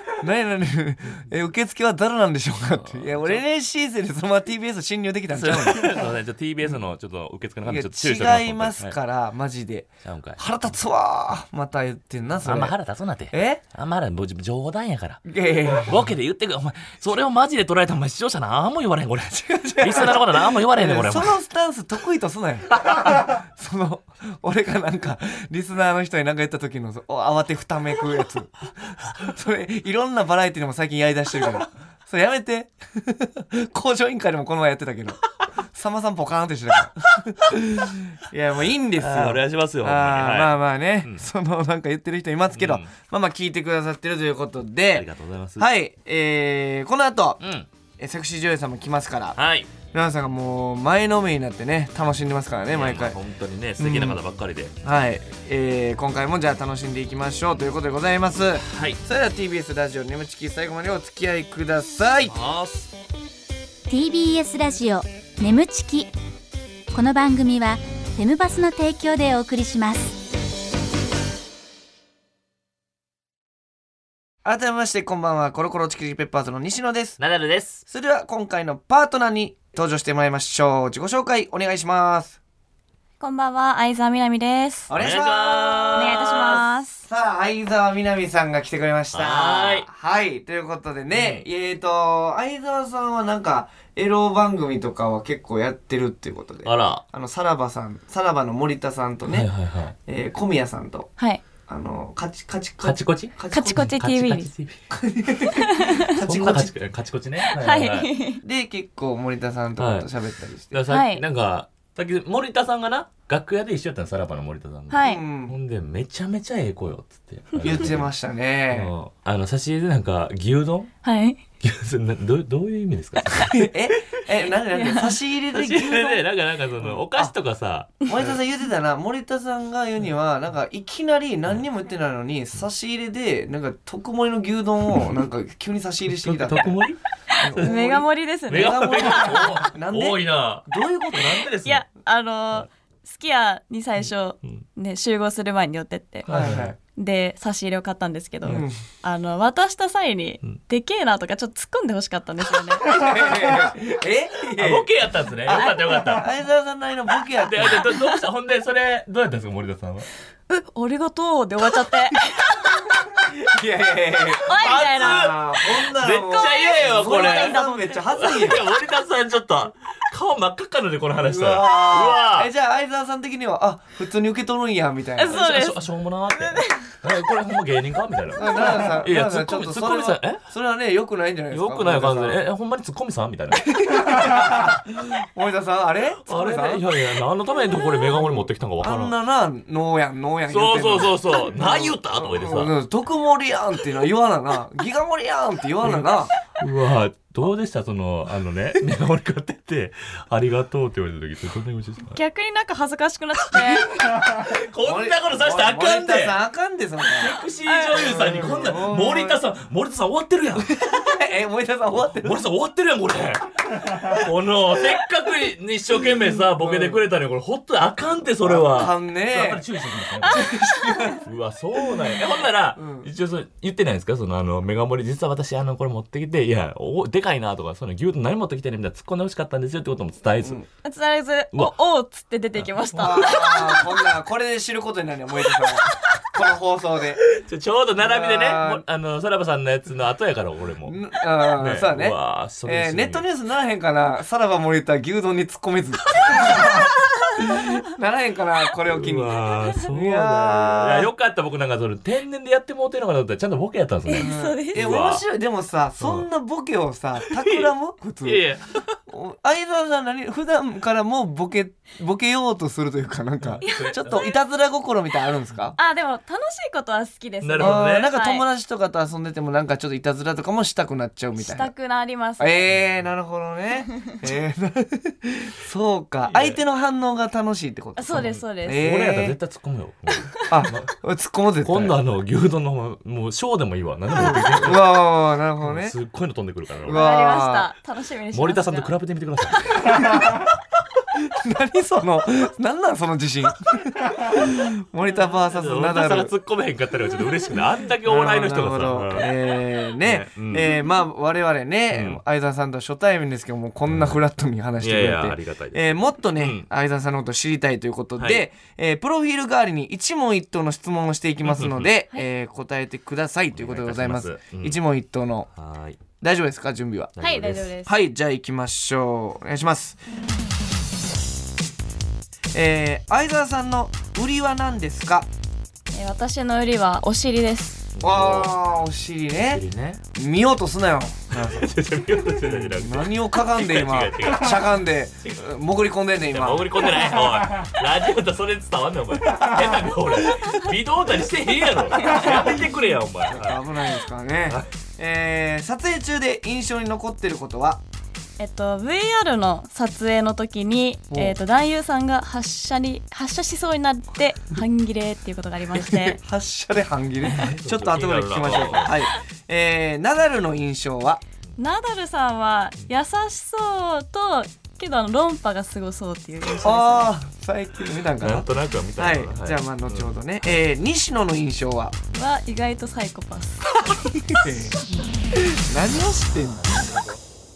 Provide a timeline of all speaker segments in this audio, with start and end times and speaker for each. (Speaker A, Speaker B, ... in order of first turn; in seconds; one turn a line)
Speaker A: 0.2-6.1
Speaker B: 2.7-3.4
Speaker B: 5.3-9.0
Speaker A: 7.7-12.8
Speaker B: 10.1-10.4
Speaker B: 12.4-21.4
Speaker A: 13.3-13.6
Speaker A: 15.2-15.9
Speaker A: 19.3-35.2
Speaker A: 35.7-45.1
Speaker B: 39.0-41.2
Speaker B: 42.5-42.9
Speaker B: 45.0-45.7
Speaker A: 45.6-47.4
Speaker B: 47.4-47.7
Speaker A: 48.0-49.4
Speaker B: 49.4-49.7
Speaker A: 49.9-53.2
Speaker B: 52.7-54.7
Speaker A: 53.8-54.2
Speaker A: 54.8-62.4
Speaker B: 58.7-59.0
Speaker B: 62.3-62.9
Speaker C: 63.9-66.1
Speaker C: 66.9-70.2
Speaker A: 74.4-77.2
Speaker B: 77.2-77.8
Speaker A: 77.9-82.4
Speaker D: 83.2-84.9
Speaker A: 84.9-99.5
Speaker B: 84.9-86.6
Speaker D: 85.9-87.0
Speaker B: 89.1-89.9
Speaker B: 91.1-91.5
Speaker B: 96.7-97.0
Speaker B: 99.3-100.0
Speaker A: 100.1-101.1
Speaker A: 101.7-103.8
Speaker B: 102.8-104.8
Speaker D: 103.5-104.5
Speaker A: 104.9-106.7
Speaker D: 105.5-106.1
Speaker B: 106.2-108.2
Speaker D: 107.5-108.4
Speaker A: 108.4-110.8
Speaker B: 109.8-110.1
Speaker B: 110.7-118.1
Speaker D: 110.9-111.2
Speaker D: 114.9-115.2
Speaker A: 115.0-115.6
Speaker A: 117.6-118.9
Speaker B: 118.7-120.9
Speaker D: 121.0-121.4
Speaker B: 121.6-123.8
Speaker A: 123.4-126.2
Speaker D: 124.7-125.1
Speaker B: 125.5-128.3
Speaker A: 126.8-127.3
Speaker A: 128.1-136.8
Speaker B: 136.2-137.0
Speaker A: 137.4-141.5
Speaker B: 137.5-137.8
Speaker D: 137.6-139.6
Speaker B: 138.5-140.7
Speaker B: 141.2-141.8
Speaker D: 141.6-146.3
Speaker B: 146.3-146.7
Speaker A: 146.3-146.8
Speaker D: 146.9-152.8
Speaker A: 148.5-148.8
Speaker A: 152.8-154.9
Speaker B: 154.6-156.3
Speaker A: 155.4-157.9
Speaker B: 157.4-160.1
Speaker D: 160.5-162.7
Speaker A: 163.2-168.6
Speaker D: 164.5-165.6
Speaker B: 164.5-172.5
Speaker D: 166.2-168.3
Speaker A: 171.2-175.5
Speaker D: 175.2-175.8
Speaker B: 175.3-180.4
Speaker D: 176.3-176.9
Speaker A: 178.3-182.4
Speaker B: 181.5-184.2
Speaker A: 183.6-186.8
Speaker B: 186.3-189.2
Speaker A: 188.2-196.3
Speaker B: 190.5-192.7
Speaker B: 195.8-202.2
Speaker D: 202.1-203.9
Speaker B: 203.6-206.4
Speaker A: 204.8-207.3
Speaker B: 207.1-211.1
Speaker D: 207.7-208.1
Speaker A: 207.9-209.4
Speaker A: 210.8-212.4
Speaker B: 212.2-220.5
Speaker A: 216.5-217.0
Speaker A: 218.4-219.6
Speaker A: 220.3-221.2
Speaker B: 221.2-230.6
Speaker A: 222.8-223.1
Speaker D: 230.8-233.9
Speaker B: 232.6-233.7
Speaker A: 233.0-237.2
Speaker B: 237.3-241.0
Speaker A: 238.0-238.8
Speaker A: 240.9-246.8
Speaker B: 241.5-243.3
Speaker B: 246.2-246.8
Speaker A: 247.4-251.1
Speaker B: 248.9-255.2
Speaker D: 254.1-254.9
Speaker A: 254.2-258.4
Speaker B: 256.0-256.3
Speaker B: 257.3-257.7
Speaker B: 258.2-259.0
Speaker A: 259.1-265.8
Speaker B: 263.4-264.3
Speaker D: 263.6-264.4
Speaker D: 265.8-268.4
Speaker B: 267.4-268.1
Speaker A: 267.6-271.7
Speaker D: 271.4-272.7
Speaker A: 272.4-279.4
Speaker B: 272.7-273.0
Speaker B: 276.3-276.6
Speaker D: 278.0-278.9
Speaker B: 278.1-280.9
Speaker A: 280.5-282.0
Speaker B: 281.6-285.0
Speaker A: 284.2-285.9
Speaker B: 285.6-287.1
Speaker A: 286.8-287.7
Speaker D: 286.9-288.9
Speaker B: 288.3-290.2
Speaker A: 291.3-296.3
Speaker B: 295.5-300.7
Speaker A: 298.0-315.5
Speaker B: 301.9-302.2
Speaker B: 303.9-304.2
Speaker B: 304.8-306.7
Speaker B: 308.2-308.4
Speaker B: 311.5-311.9
Speaker B: 313.5-314.8
Speaker B: 315.6-316.0
Speaker A: 316.2-320.0
Speaker B: 317.2-317.7
Speaker D: 317.2-317.9
Speaker A: 322.5-325.3
Speaker D: 325.9-327.9
Speaker B: 328.0-328.5
Speaker A: 328.0-329.6
Speaker B: 329.4-330.0
Speaker A: 330.1-331.7
Speaker B: 331.3-334.7
Speaker A: 332.5-336.8
Speaker B: 336.3-343.6
Speaker A: 342.1-342.5
Speaker A: 343.3-347.8
Speaker D: 348.4-356.2
Speaker A: 355.8-361.2
Speaker B: 357.3-359.0
Speaker D: 361.6-367.1
Speaker A: 366.6-372.0
Speaker B: 368.2-370.1
Speaker D: 372.1-373.8
Speaker A: 374.2-374.9
Speaker A: 375.5-377.0
Speaker B: 376.8-377.2